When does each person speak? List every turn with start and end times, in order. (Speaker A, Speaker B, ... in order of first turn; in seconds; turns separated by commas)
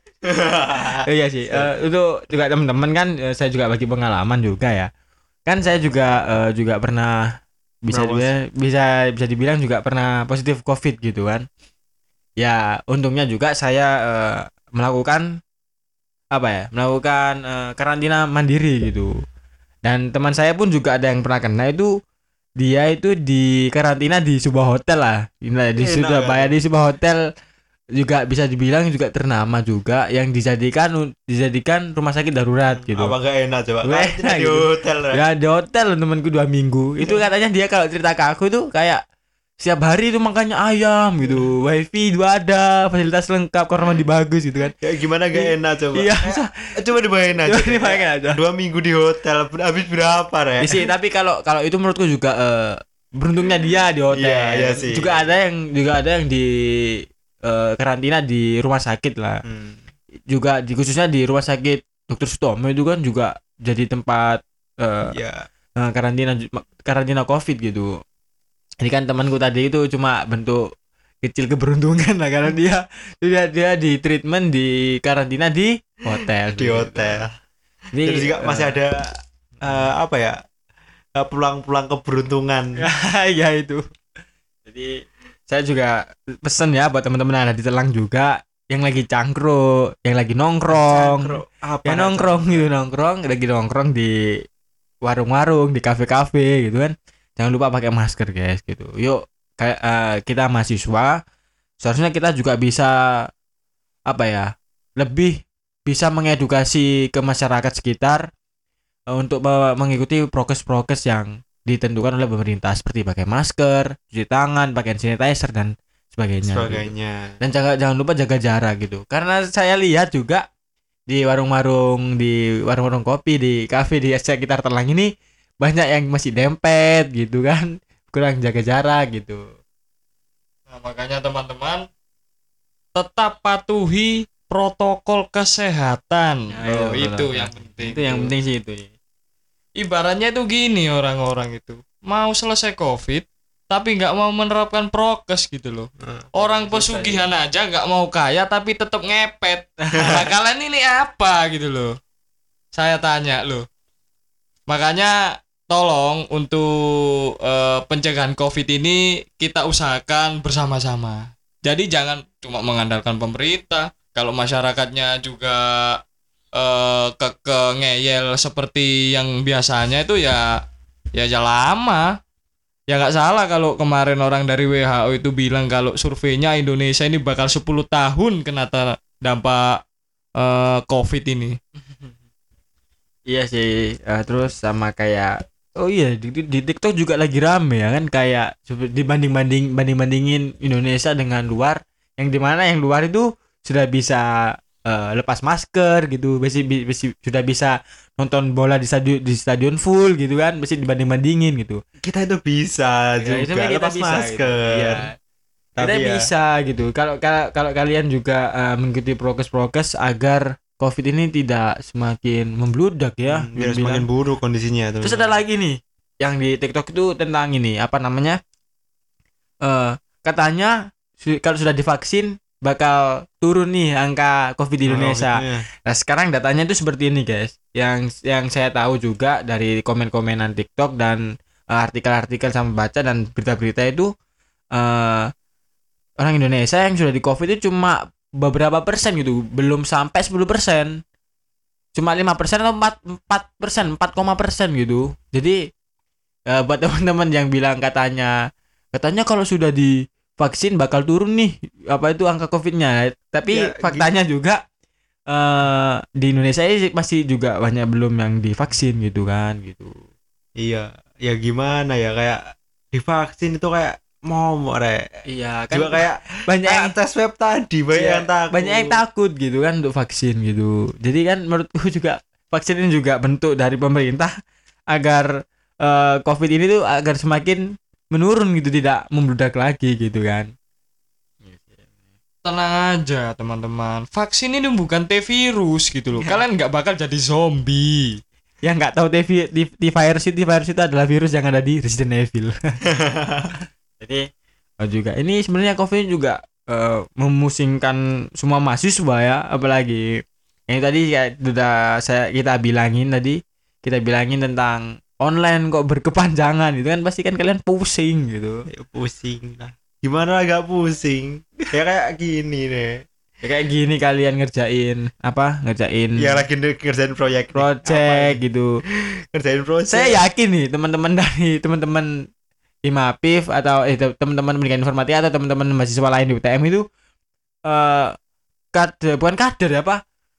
Speaker A: 0.2-1.7, Speaker B: 1.0-4.9, Speaker B: 5.5-7.3, Speaker B: 7.8-11.4, Speaker A: 7.9-8.3, Speaker B: 12.4-15.4, Speaker B: 16.3-19.1, Speaker B: 19.8-21.9, Speaker B: 22.6-27.2, Speaker A: 25.8-26.5, Speaker B: 28.0-33.1, Speaker A: 32.8-35.2, Speaker B: 33.8-39.0, Speaker B: 39.6-44.7, Speaker A: 44.8-50.9, Speaker B: 45.3-46.7, Speaker B: 47.4-48.4, Speaker B: 50.6-59.4, Speaker A: 54.1-55.1, Speaker A: 59.4-59.8, Speaker B: 60.3-65.1, Speaker A: 65.1-65.5, Speaker B: 65.8-68.0, Speaker B: 68.8-70.7, Speaker B: 71.2-77.2, Speaker A: 76.5-77.3, Speaker B: 77.9-78.7, Speaker A: 78.0-80.4, Speaker A: 81.2-82.8, Speaker B: 82.8-83.8, Speaker B: 84.7-94.1, Speaker A: 90.7-92.7, Speaker B: 95.0-101.2, Speaker B: 101.8-103.3, Speaker B: 104.1-108.3, Speaker B: 109.1-120.4, Speaker A: 116.5-117.4, Speaker B: 121.1-129.5, Speaker C: 130.7-131.8, Speaker C: 132.9-138.3, Speaker B: 136.5-138.9, Speaker C: 139.8-151.9, Speaker B: 146.4-147.2, Speaker C: 152.7-153.7, Speaker C: 154.7-166.0, Speaker C: 166.6-170.6, Speaker C: 171.1-172.2, Speaker C: 172.9-179.8, Speaker C: 180.4-181.6, Speaker B: 181.8-182.1, Speaker B: 183.3-201.8, Speaker A: 202.0-205.1, Speaker B: 203.2-205.1, Speaker A: 205.8-206.3, Speaker B: 205.8-214.0, Speaker A: 213.3-215.3, Speaker B: 215.0-218.4, Speaker B: 219.6-231.2, Speaker A: 224.8-225.6, Speaker B: 231.7-234.1, Speaker B: 234.7-235.3, Speaker B: 236.2-241.0, Speaker B: 241.9-245.6, Speaker B: 246.5-248.3, Speaker B: 248.9-254.6, Speaker A: 253.5-254.1, Speaker B: 255.3-259.9, Speaker A: 260.6-265.1, Speaker B: 265.3-266.9, Speaker A: 265.7-269.0, Speaker B: 267.9-274.3, Speaker B: 274.9-275.3, Speaker B: 275.8-280.5, Speaker B: 281.4-281.9, Speaker C: 282.4-288.2, Speaker B: 288.6-292.9, Speaker A: 292.9-293.5, Speaker B: 294.0-294.3, Speaker B: 294.8-300.1, Speaker B: 300.7-308.6, Speaker A: 308.7-313.0, Speaker B: 313.4-316.4, Speaker A: 316.2-318.4, Speaker B: 317.6-318.7, Speaker A: 319.3-320.2, Speaker B: 319.9-322.1, Speaker B: 322.9-326.8, Speaker B: 327.7-328.1, Speaker B: 328.7-330.0